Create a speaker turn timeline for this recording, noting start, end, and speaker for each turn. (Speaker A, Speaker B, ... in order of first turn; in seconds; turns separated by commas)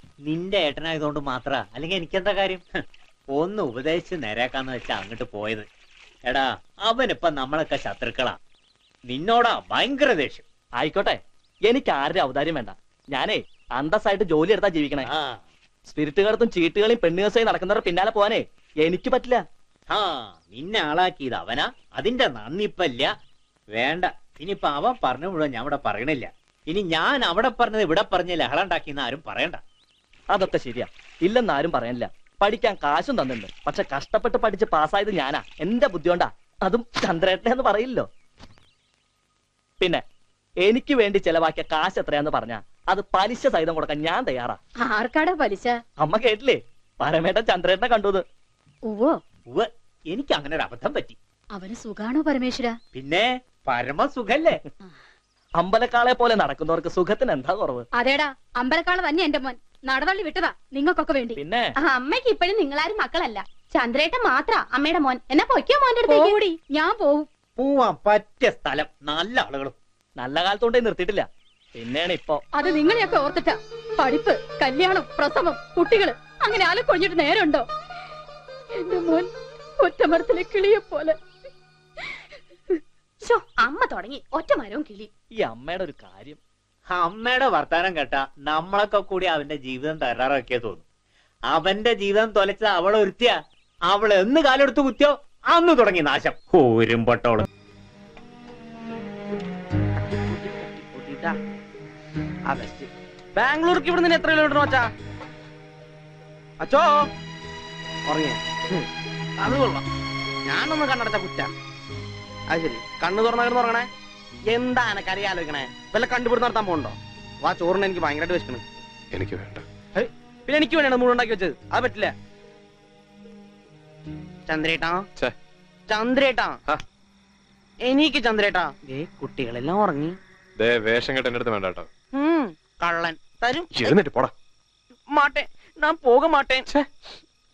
Speaker A: 0.2-2.6, Speaker A: 3.3-5.7, Speaker A: 6.2-8.4, Speaker A: 9.1-10.4, Speaker B: 10.8-15.1, Speaker A: 15.1-15.4, Speaker B: 15.9-19.4, Speaker A: 19.9-23.1, Speaker A: 23.7-29.6, Speaker B: 30.3-38.1, Speaker B: 40.6-44.6, Speaker C: 44.8-45.8, Speaker B: 46.0-48.2, Speaker C: 48.9-49.2, Speaker A: 49.5-51.2, Speaker C: 51.5-52.8, Speaker A: 52.9-54.6, Speaker B: 55.6-57.9, Speaker C: 57.9-61.4, Speaker B: 61.4-61.7, Speaker D: 61.8-66.3, Speaker C: 66.0-67.3, Speaker A: 67.6-69.8, Speaker B: 70.2-72.4, Speaker C: 72.5-77.7, Speaker C: 78.8-81.2, Speaker D: 83.2-85.1, Speaker B: 85.4-86.4, Speaker A: 86.9-90.8, Speaker A: 91.5-93.4, Speaker A: 93.9-97.5, Speaker E: 100.3-101.3, Speaker E: 102.5-104.9, Speaker E: 106.6-106.9, Speaker E: 108.1-108.9, Speaker E: 109.4-109.8, Speaker E: 110.5-111.5, Speaker E: 112.5-113.9, Speaker E: 114.5-118.6, Speaker F: 119.1-119.7, Speaker E: 120.0-122.1, Speaker E: 124.5-125.0, Speaker E: 125.9-126.6, Speaker E: 127.8-130.2, Speaker F: 130.6-131.9, Speaker E: 132.1-133.9, Speaker F: 133.7-134.3, Speaker E: 135.1-136.7